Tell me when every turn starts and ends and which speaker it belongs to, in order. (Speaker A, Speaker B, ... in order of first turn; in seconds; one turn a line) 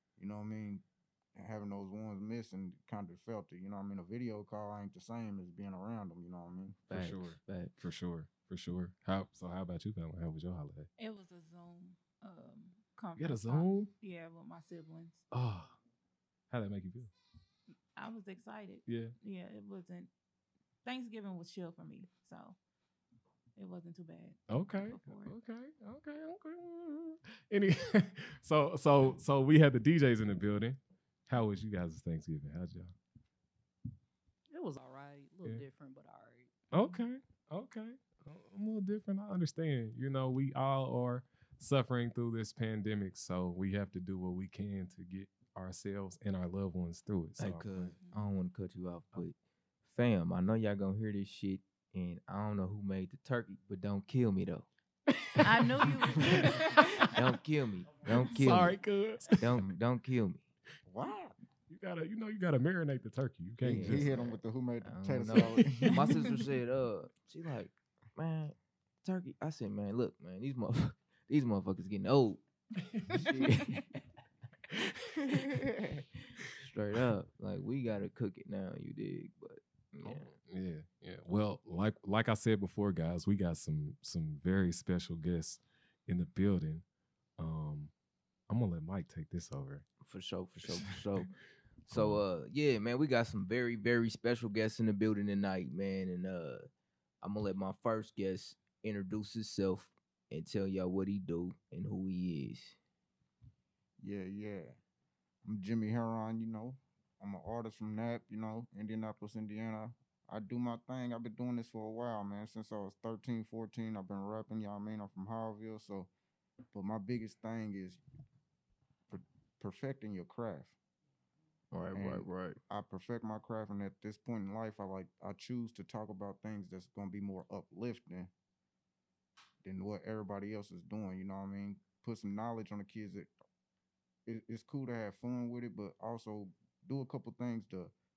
Speaker A: 0.2-6.8
Speaker B: 6.9-7.7
Speaker C: 6.9-10.9
Speaker D: 11.0-15.2
Speaker C: 13.2-13.9
Speaker C: 15.3-15.7
Speaker C: 16.5-17.1
Speaker D: 17.9-20.1
Speaker C: 18.9-19.1
Speaker D: 20.8-22.6
Speaker D: 23.6-25.3
Speaker C: 24.5-32.9
Speaker E: 34.5-36.6
Speaker C: 36.7-47.9
Speaker B: 47.4-49.4
Speaker B: 49.9-54.7
Speaker C: 55.1-57.1
Speaker D: 55.4-57.1
Speaker B: 57.1-58.8
Speaker C: 58.1-59.5
Speaker B: 59.4-60.4
Speaker A: 60.9-61.3
Speaker C: 61.7-64.1
Speaker A: 63.6-66.2
Speaker B: 63.6-72.4
Speaker C: 72.9-73.2
Speaker B: 73.0-73.9
Speaker B: 75.3-75.7
Speaker B: 76.4-80.3
Speaker C: 80.1-86.8
Speaker C: 87.4-87.9
Speaker C: 88.5-89.8
Speaker B: 90.0-91.3
Speaker B: 91.9-96.6
Speaker C: 91.9-92.2
Speaker B: 97.2-102.8
Speaker A: 104.0-104.8
Speaker A: 105.4-116.1
Speaker A: 116.7-118.0
Speaker A: 119.1-120.8
Speaker B: 121.7-122.6
Speaker A: 121.9-128.3
Speaker A: 129.6-133.3
Speaker A: 134.2-137.9